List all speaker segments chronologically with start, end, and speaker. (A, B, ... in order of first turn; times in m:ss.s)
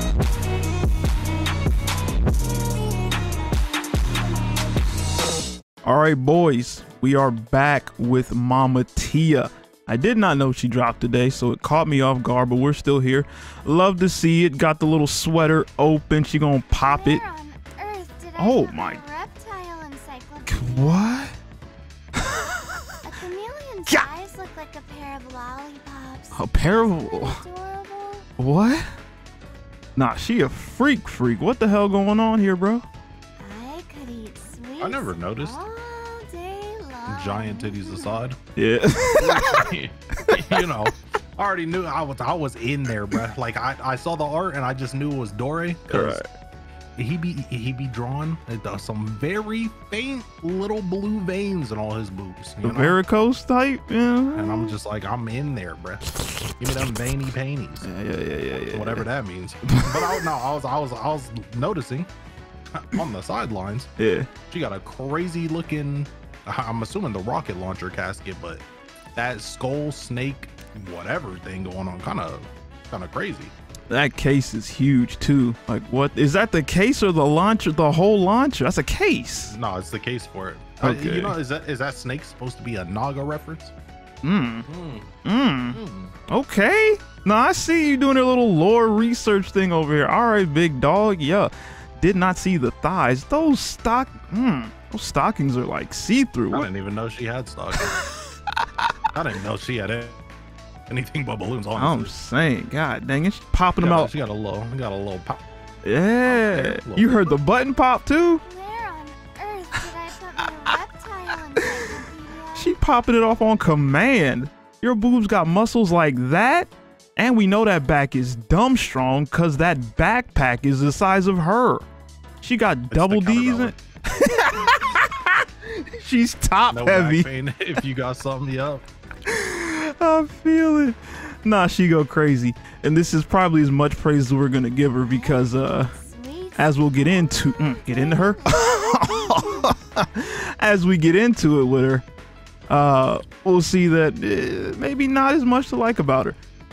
0:05.8-0:17.2 A
0:16.8-0:21.0 B
0:18.4-0:19.0 A
0:20.5-0:21.4 A
0:22.2-0:23.0 A
0:23.0-0:28.3 B
0:26.3-0:27.4 A
0:28.4-0:28.9 A
0:30.0-0:32.9 A
0:33.4-0:38.2 B
0:34.8-0:35.6 C
0:37.1-0:38.4 C
0:38.6-0:39.7 A
0:39.2-0:46.2 C
0:40.2-0:40.6 A
0:45.9-0:46.3 A
0:47.0-0:53.0 C
0:52.6-0:54.8 A
0:54.3-0:56.1 C
0:56.6-0:57.9 C
0:57.8-0:59.1 A
0:58.5-1:02.1 C
0:59.7-1:00.3 A
1:02.7-1:03.9 C
1:04.0-1:04.3 A
1:04.5-1:08.6 C
1:09.2-1:13.5 C
1:13.9-1:19.6 A
1:19.5-1:23.7 C
1:20.8-1:21.4 A
1:24.2-1:24.7 A
1:24.7-1:25.1 C
1:25.2-1:25.8 A
1:25.7-1:26.2 C
1:26.3-1:36.7 A
1:36.5-1:38.0 C
1:37.9-1:38.9 A
1:39.1-1:40.2 C
1:40.9-1:42.1 C
1:41.8-1:44.1 A
1:43.8-1:45.4 C
1:45.8-1:48.4 A
1:46.2-1:47.4 C
1:48.5-1:52.8 B
1:52.6-2:01.8 A
2:02.4-2:07.8 A
2:02.9-2:03.8 C
2:06.7-2:08.8 C
2:09.3-2:15.9 A
2:15.0-2:19.7 B
2:16.6-2:22.0 A
2:22.7-2:26.4 A